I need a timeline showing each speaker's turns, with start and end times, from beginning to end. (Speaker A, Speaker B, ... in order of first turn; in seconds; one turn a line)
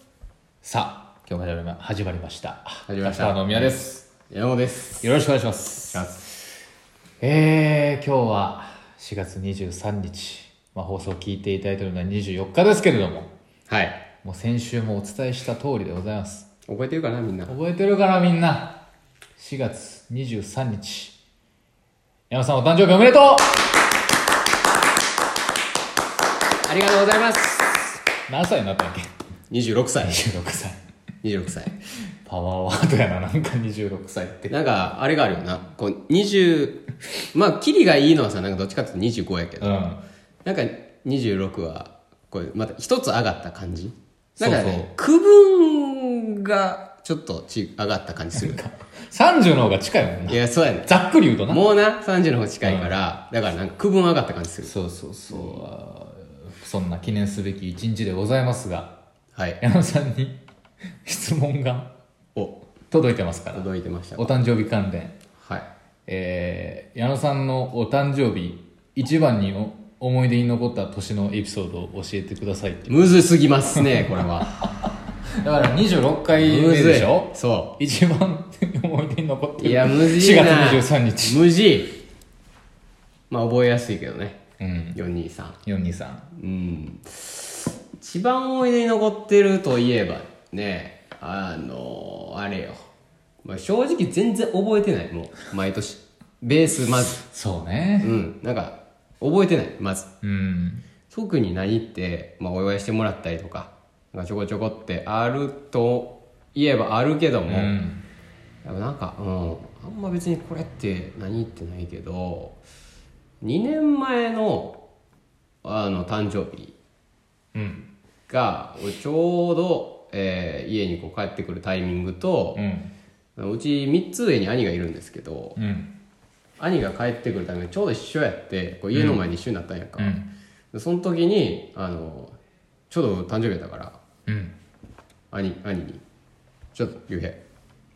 Speaker A: 0.6-4.0
Speaker B: 2.9-5.1
Speaker A: 5.0-6.0
Speaker B: 5.9-6.2
Speaker A: 7.2-13.3
Speaker B: 13.7-14.0
Speaker A: 14.2-16.5
Speaker B: 16.7-17.5
Speaker A: 17.5-18.8
Speaker A: 19.4-21.1
Speaker A: 22.3-23.6
Speaker B: 26.6-28.0
Speaker A: 28.3-29.1
Speaker B: 29.5-30.2
Speaker A: 30.0-30.8
Speaker B: 31.2-31.7
Speaker A: 32.2-34.5
Speaker B: 34.5-36.8
Speaker B: 37.3-39.7
Speaker A: 39.6-40.0
Speaker B: 40.4-48.6
Speaker A: 44.4-44.9
Speaker A: 48.4-51.6
Speaker B: 50.3-50.9
Speaker B: 51.5-54.7
Speaker A: 52.6-52.9
Speaker A: 54.6-58.9
Speaker B: 55.3-55.6
Speaker A: 59.6-60.4
Speaker A: 61.0-61.9
Speaker A: 62.9-65.2
Speaker B: 63.5-64.3
Speaker B: 65.4-65.7
Speaker A: 66.1-72.9
Speaker B: 72.9-74.5
Speaker A: 75.4-81.4
Speaker B: 76.3-77.7
Speaker B: 79.6-82.0
Speaker B: 83.3-84.4
Speaker A: 84.6-85.0
Speaker B: 84.9-85.6
Speaker A: 85.6-86.3
Speaker B: 86.3-92.8
Speaker B: 93.4-97.2
Speaker A: 97.2-98.2
Speaker B: 98.0-100.1
Speaker A: 100.2-100.8
Speaker B: 101.1-107.7
Speaker A: 107.5-108.0
Speaker B: 108.6-112.6
Speaker B: 113.4-114.8
Speaker B: 115.6-116.7
Speaker A: 117.5-117.8
Speaker B: 118.3-122.6
Speaker A: 122.5-122.9
Speaker B: 123.3-125.6
Speaker A: 125.5-125.9
Speaker B: 126.6-130.1
Speaker A: 128.9-129.2
Speaker A: 130.0-130.3
Speaker B: 130.7-132.3
Speaker B: 132.9-134.0
Speaker A: 134.3-134.5
Speaker B: 135.3-136.0
Speaker B: 136.7-137.4